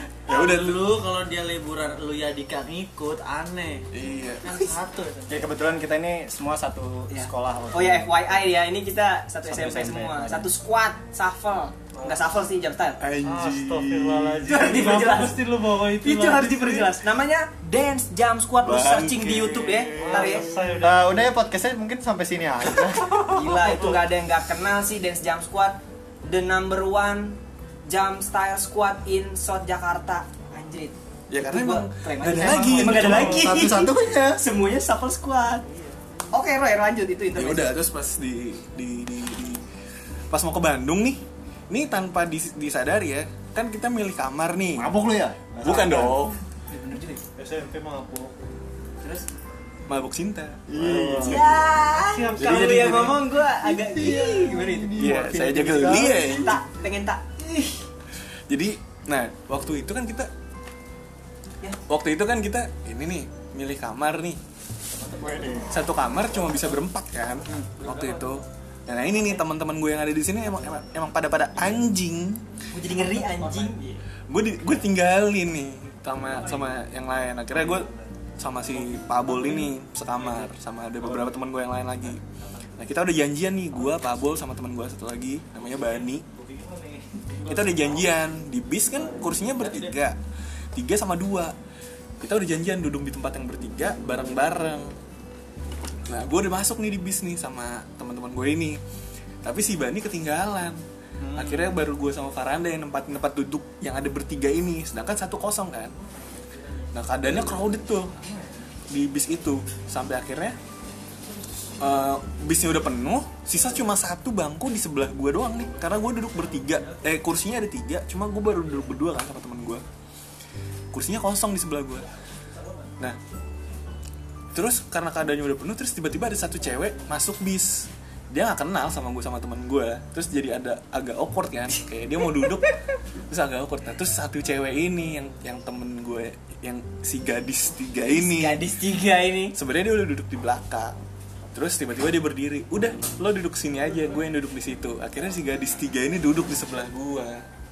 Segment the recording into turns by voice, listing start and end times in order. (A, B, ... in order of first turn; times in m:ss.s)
0:00.3-0:00.9 A
0:00.3-0:03.9 B
0:03.9-0:04.7 A
0:04.4-0:05.5 B
0:05.3-0:08.4 C
0:07.1-0:13.0 D
0:09.4-0:10.5 C
0:13.0-0:14.5 A
0:13.2-0:16.9 B
0:13.4-0:15.1 E
0:14.4-0:20.5 D
0:18.6-0:20.2 A
0:20.0-0:21.0 B
0:20.0-0:21.0 E
0:20.8-0:23.3 C
0:23.3-0:35.7 D
0:31.3-0:33.5 A
0:32.3-0:34.4 C
0:35.7-0:36.1 B
0:36.3-0:37.8 D
0:37.3-0:39.6 A
0:40.3-0:45.0 A
0:44.8-0:46.3 C
0:45.6-0:46.4 A
0:46.7-0:47.2 D
0:47.4-0:48.4 E
0:49.0-0:49.3 D
0:49.9-0:51.5 A
0:50.7-0:51.6 C
0:50.8-0:51.1 E
0:51.2-0:55.1 D
0:51.9-0:53.1 E
0:52.4-0:53.2 A
0:53.6-0:56.5 C
0:55.0-0:56.6 A
0:56.1-0:57.8 D
0:58.5-1:00.3 A
1:01.9-1:04.4 A
1:04.9-1:06.8 B
1:05.2-1:05.7 C
1:05.7-1:12.4 A
1:07.5-1:07.8 D
1:12.7-1:13.8 D
1:12.9-1:14.0 B
1:14.3-1:22.2 A
1:16.3-1:16.8 B
1:18.7-1:20.5 B
1:22.0-1:22.7 B
1:22.8-1:26.2 A
1:25.6-1:28.1 B
1:27.5-1:30.2 A
1:29.0-1:29.9 B
1:30.8-1:31.5 A
1:32.2-1:34.9 A
1:36.1-1:38.8 A
1:39.4-1:40.8 A
1:41.3-1:46.0 A
1:46.0-1:48.6 B
1:46.9-1:48.2 A
1:48.9-1:50.6 A
1:51.2-1:52.0 B
1:51.8-1:59.8 A
1:55.5-1:57.2 B
1:58.6-1:58.9 B
2:00.9-2:02.1 A
2:02.5-2:02.9 B
2:04.5-2:12.8 A
2:13.3-2:18.6 A
2:18.1-2:19.6 D
2:19.5-2:21.0 A
2:21.5-2:27.4 A